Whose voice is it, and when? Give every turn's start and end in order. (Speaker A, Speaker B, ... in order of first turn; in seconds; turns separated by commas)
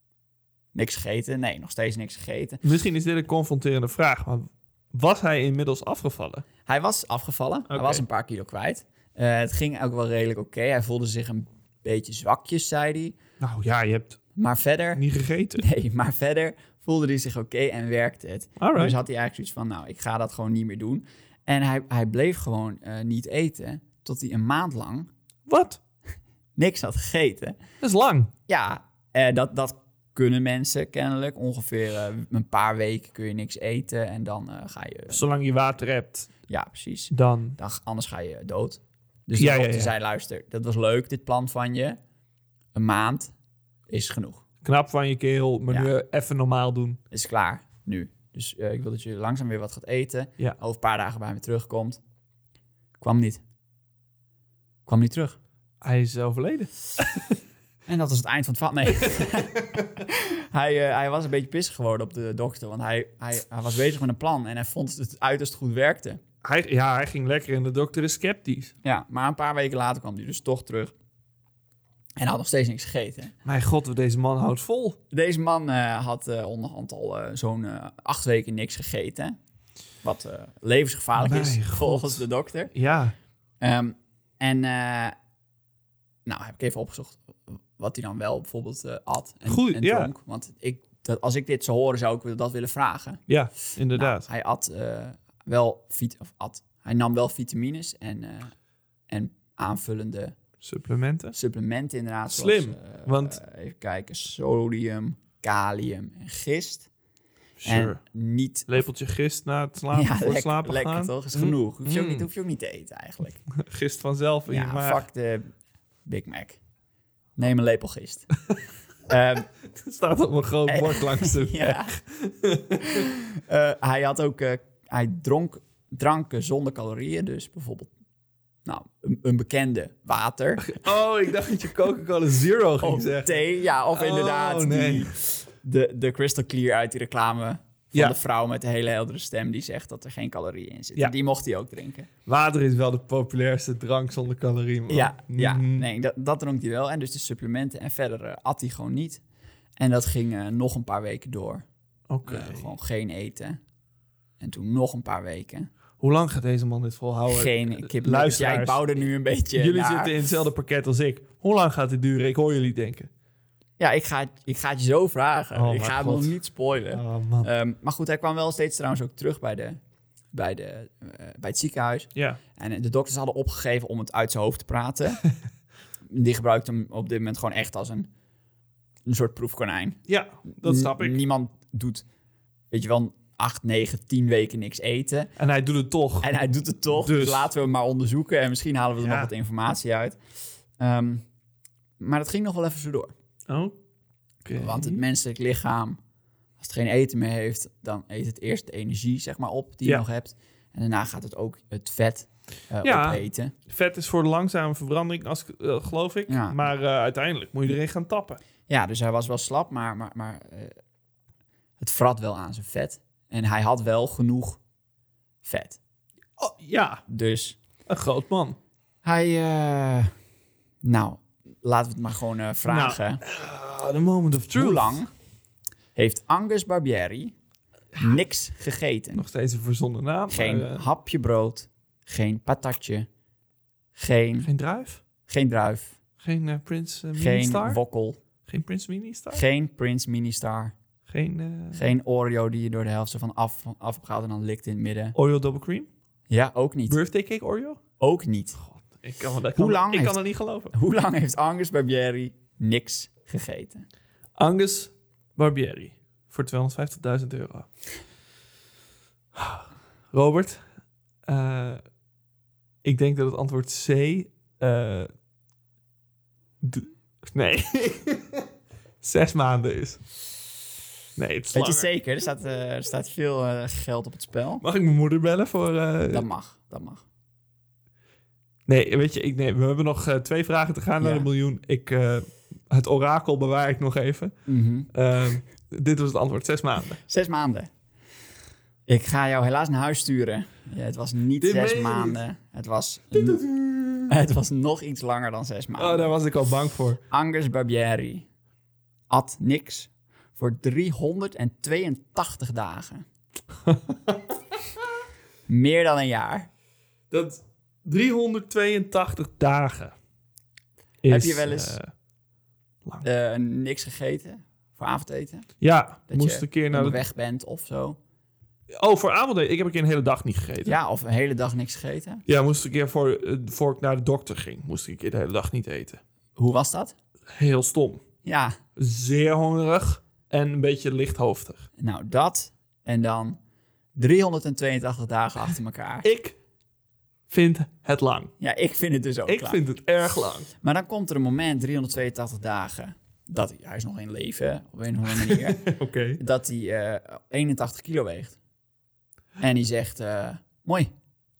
Speaker A: 0.7-2.6, Speaker B: 2.6-6.5, Speaker A: 6.7-13.2, Speaker B: 7.7-8.0, Speaker B: 13.4-14.2, Speaker A: 14.3-15.0, Speaker B: 14.9-15.6, Speaker A: 15.5-25.1, Speaker B: 18.6-19.0, Speaker B: 25.5-25.8, Speaker A: 26.6-27.6, Speaker B: 27.8-28.3, Speaker A: 28.5-35.2, Speaker B: 35.1-36.3, Speaker A: 36.5-42.0, Speaker B: 37.1-37.6, Speaker B: 39.4-39.9, Speaker A: 42.7-43.3, Speaker A: 43.9-44.4, Speaker B: 44.6-47.0, Speaker A: 47.1-52.0, Speaker A: 53.0-53.4, Speaker A: 54.9-55.4, Speaker B: 55.8-57.4, Speaker A: 57.9-66.2, Speaker B: 66.4-68.7, Speaker A: 68.8-70.9, Speaker A: 72.2-73.3, Speaker B: 73.4-75.0, Speaker A: 75.1-79.3, Speaker A: 80.0-82.7, Speaker B: 81.2-83.1, Speaker A: 83.6-85.1, Speaker A: 86.2-93.2, Speaker B: 89.5-90.1, Speaker B: 93.3-94.3, Speaker A: 93.9-98.5, Speaker A: 99.1-100.4, Speaker B: 100.6-101.3, Speaker A: 101.3-106.9, Speaker B: 102.3-103.4, Speaker B: 107.6-108.0, Speaker A: 107.6-108.8, Speaker B: 108.7-112.3, Speaker A: 109.9-113.4, Speaker B: 113.5-115.0, Speaker A: 114.5-115.5, Speaker A: 116.0-116.6, Speaker A: 117.4-118.3, Speaker A: 119.1-119.5, Speaker B: 119.7-123.1, Speaker A: 120.7-122.0, Speaker A: 122.8-127.9, Speaker A: 128.7-130.8, Speaker B: 130.6-135.2, Speaker A: 132.8-142.1, Speaker B: 142.2-145.8, Speaker A: 144.9-149.2, Speaker A: 149.8-151.7, Speaker B: 152.1-152.7, Speaker A: 152.2-153.6, Speaker A: 154.4-155.7, Speaker B: 156.0-158.8, Speaker A: 157.3-160.2, Speaker B: 159.6-163.1, Speaker A: 163.8-169.8, Speaker B: 165.5-166.3, Speaker B: 166.9-167.5, Speaker A: 170.3-175.2, Speaker A: 176.1-178.1, Speaker A: 179.1-182.0, Speaker B: 180.1-181.2, Speaker A: 182.7-185.3, Speaker B: 185.4-186.3, Speaker A: 186.2-190.2, Speaker B: 186.9-187.5, Speaker B: 189.0-189.3, Speaker A: 190.8-191.2, Speaker A: 192.0-193.1, Speaker B: 193.5-193.8, Speaker B: 194.4-195.0, Speaker A: 194.6-196.0, Speaker A: 196.6-203.5, Speaker B: 202.8-208.4, Speaker A: 206.3-206.6, Speaker A: 208.7-210.7, Speaker A: 211.8-214.6, Speaker A: 215.4-215.8, Speaker B: 216.4-217.0, Speaker A: 217.1-217.6, Speaker B: 217.9-218.6, Speaker A: 219.0-220.1, Speaker A: 220.8-223.2, Speaker B: 222.7-225.0, Speaker A: 224.3-225.1, Speaker A: 225.9-227.3, Speaker A: 228.0-229.2, Speaker B: 229.2-230.8, Speaker A: 230.3-233.1, Speaker A: 233.9-234.5, Speaker B: 234.4-235.0, Speaker A: 235.3-236.0, Speaker B: 236.2-237.8, Speaker A: 237.1-238.2, Speaker B: 238.5-239.4, Speaker A: 239.3-240.7, Speaker B: 241.1-241.8, Speaker A: 241.7-245.2, Speaker B: 245.2-245.9, Speaker A: 246.3-247.0, Speaker B: 246.9-247.8, Speaker A: 248.0-248.6, Speaker B: 248.6-250.7, Speaker A: 249.5-250.2, Speaker A: 250.7-253.8, Speaker B: 254.3-257.7, Speaker B: 259.3-260.6, Speaker B: 261.2-261.8, Speaker B: 262.8-265.1, Speaker B: 266.6-268.4, Speaker B: 269.0-270.0, Speaker B: 271.1-271.9, Speaker A: 271.5-274.6, Speaker B: 274.6-276.2, Speaker A: 276.1-277.0, Speaker B: 278.7-284.3, Speaker A: 281.0-281.3, Speaker A: 284.4-284.9, Speaker B: 284.9-287.0, Speaker A: 287.1-287.7, Speaker A: 288.9-293.4, Speaker B: 291.4-292.2, Speaker B: 293.2-294.1, Speaker A: 294.1-296.1, Speaker B: 295.8-297.0, Speaker A: 297.1-298.3, Speaker A: 299.1-303.1, Speaker B: 303.6-304.6, Speaker A: 305.5-306.5, Speaker B: 307.1-309.9, Speaker B: 311.0-311.9, Speaker A: 311.1-311.8, Speaker A: 313.0-315.5, Speaker B: 315.6-317.0, Speaker A: 316.1-318.0, Speaker B: 318.7-320.8, Speaker A: 320.6-322.2, Speaker B: 322.3-326.0, Speaker A: 326.4-326.9, Speaker B: 327.3-328.0, Speaker A: 328.2-328.6, Speaker B: 328.8-331.6, Speaker A: 331.8-333.4, Speaker A: 333.9-336.1, Speaker B: 336.0-336.4, Speaker B: 337.3-338.3, Speaker A: 338.4-339.6, Speaker B: 339.3-340.5, Speaker A: 340.6-348.4, Speaker B: 345.2-346.2, Speaker A: 349.4-350.9